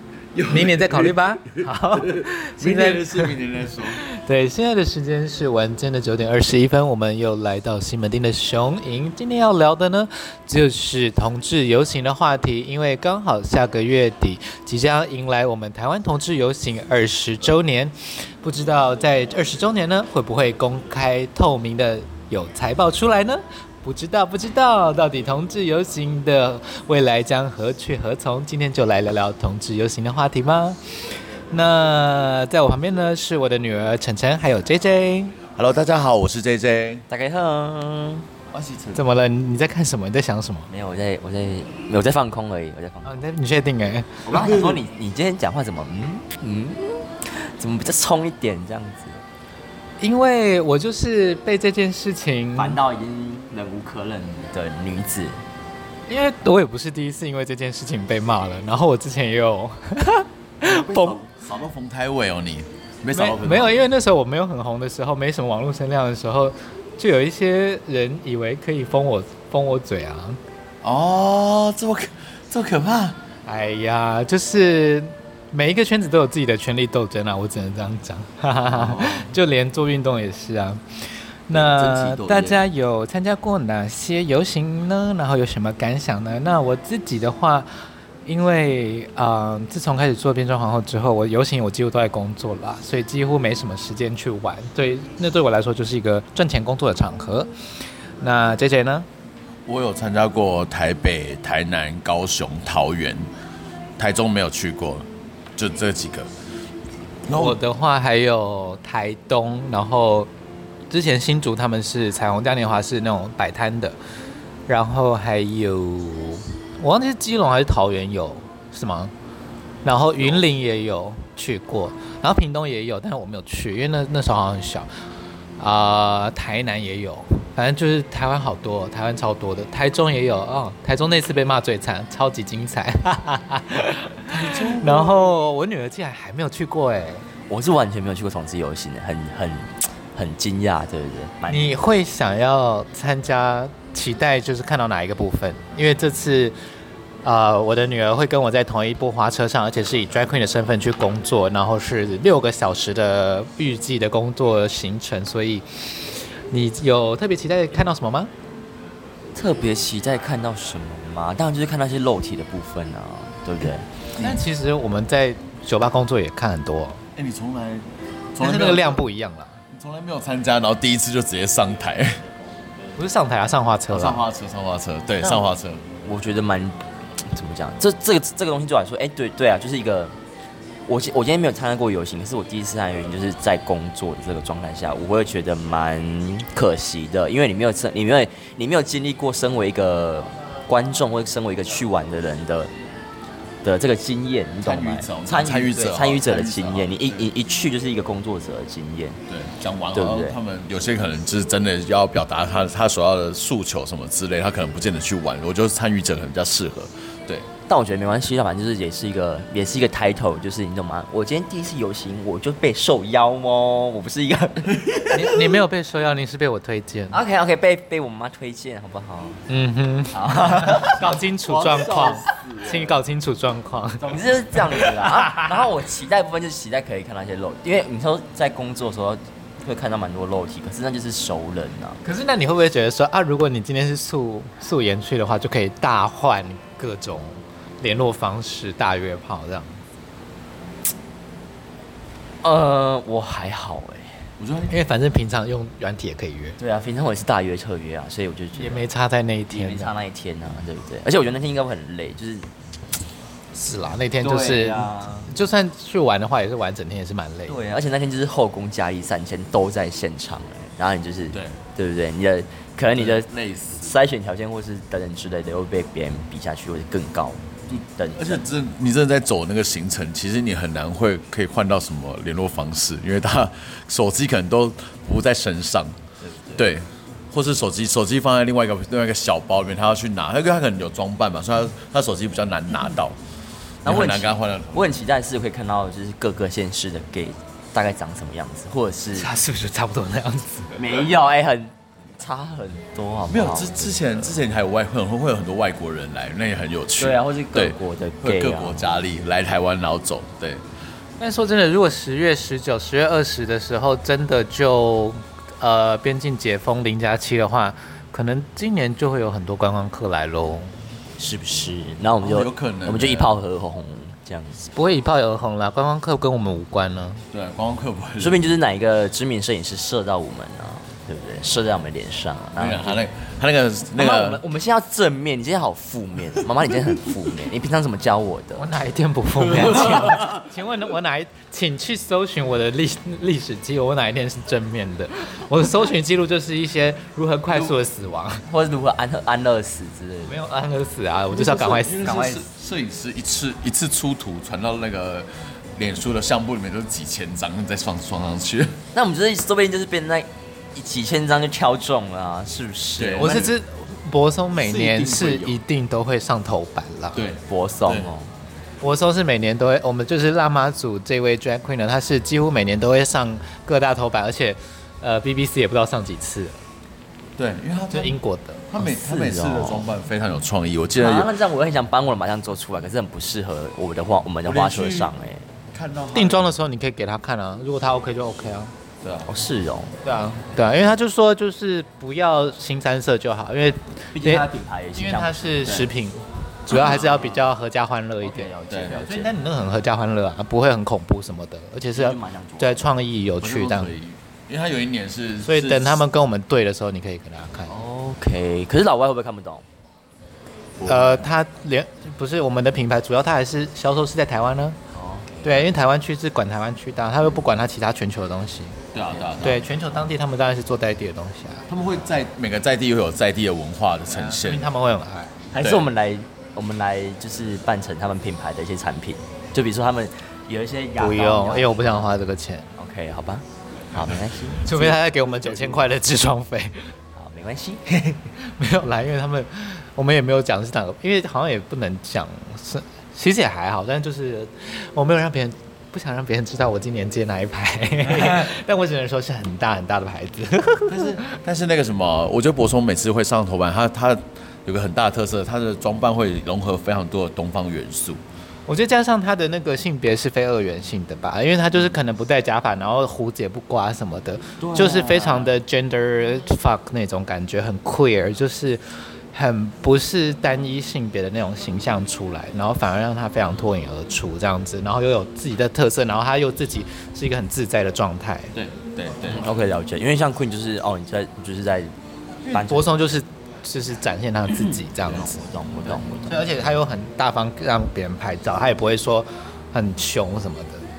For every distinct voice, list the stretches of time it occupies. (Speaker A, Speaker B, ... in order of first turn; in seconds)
Speaker A: 0.3-4.0, 35.5-37.0, 38.5-39.0, 44.3-44.8, 60.6-63.9, 70.8-73.2, 78.7-79.3, 99.7-103.3, 104.0-105.1, 105.6-106.3, 107.2-107.6, 134.3-135.3, 164.2-164.4, 167.2-169.0, 169.7-172.2, 173.9-175.8, 194.6-197.3, 199.3-207.5, 214.8-215.1, 221.5-222.7, 244.4-244.8, 261.3-261.6, 262.9-264.0, 267.7-276.0, 276.6-283.2, 283.8-284.9, 293.3-300.6, 312.2-313.4, 317.3-318.4, 322.6-324.4, 341.3-348.8, 353.0-353.5, 354.5-355.6, 357.1-358.1, 367.4-368.2, 368.7-371.3, 374.4-375.1, 375.7-376.5, 379.0-379.3, 386.7-387.3, 388.7-389.0, 393.4-396.0, 400.8-401.2, 408.9-409.7, 411.7-414.7, 415.5-415.9, 424.0-424.5, 425.5-425.8, 440.9-448.2, 454.7-455.1, 468.5-469.4
Speaker B: 0.5-35.4, 39.0-40.7, 43.0-44.4, 50.0-52.8, 56.1-61.2, 63.1-70.4, 73.5-80.8, 81.5-87.7, 88.2-97.5, 98.2-99.1, 107.3-110.3, 110.9-114.0, 114.7-119.1, 119.8-124.9, 125.6-137.2, 141.5-146.5, 147.2-158.3, 164.2-167.0, 168.4-169.6, 172.9-174.2, 215.1-217.2, 219.5-225.7, 232.0-239.8, 244.7-246.6, 248.6-249.9, 253.5-257.6, 289.1-290.8, 301.2-310.8, 314.7-317.2, 328.6-338.4, 340.3-342.4, 353.2-357.2, 358.8-366.6, 367.9-368.6, 376.1-378.7, 380.0-393.9, 395.4-397.7, 400.9-404.8, 405.4-408.8, 409.4-411.6, 414.1-415.4, 420.9-422.7, 424.6-426.9, 427.9-441.2, 448.7-458.8, 459.3-468.5, 472.4-475.4, 476.3-480.8
Speaker C: 37.1-38.3, 40.7-43.2, 44.3-49.2, 52.5-55.4, 81.5-82.6, 137.5-141.8, 159.3-163.9, 176.0-180.1, 180.8-192.7, 193.6-199.2, 199.9-200.4, 207.7-215.0, 217.1-219.4, 220.1-222.8, 224.0-232.0, 242.4-244.2, 246.6-248.8, 249.5-252.5, 254.2-255.3, 257.5-267.4, 268.0-268.4, 283.8-289.3, 290.8-294.4, 297.0-298.9, 311.2-314.7, 318.2-323.0, 323.9-328.7, 329.4-330.3, 338.5-340.4, 348.9-353.4, 357.5-358.3, 368.8-369.9, 371.0-375.5, 379.3-379.9, 384.1-385.9, 386.8-387.1, 388.2-389.3, 391.9-392.9, 397.7-399.6, 404.9-405.7, 409.1-409.6, 415.6-422.1, 422.8-425.0, 427.1-427.8, 454.6-455.5, 469.3-471.9, 472.5-472.9, 475.0-476.5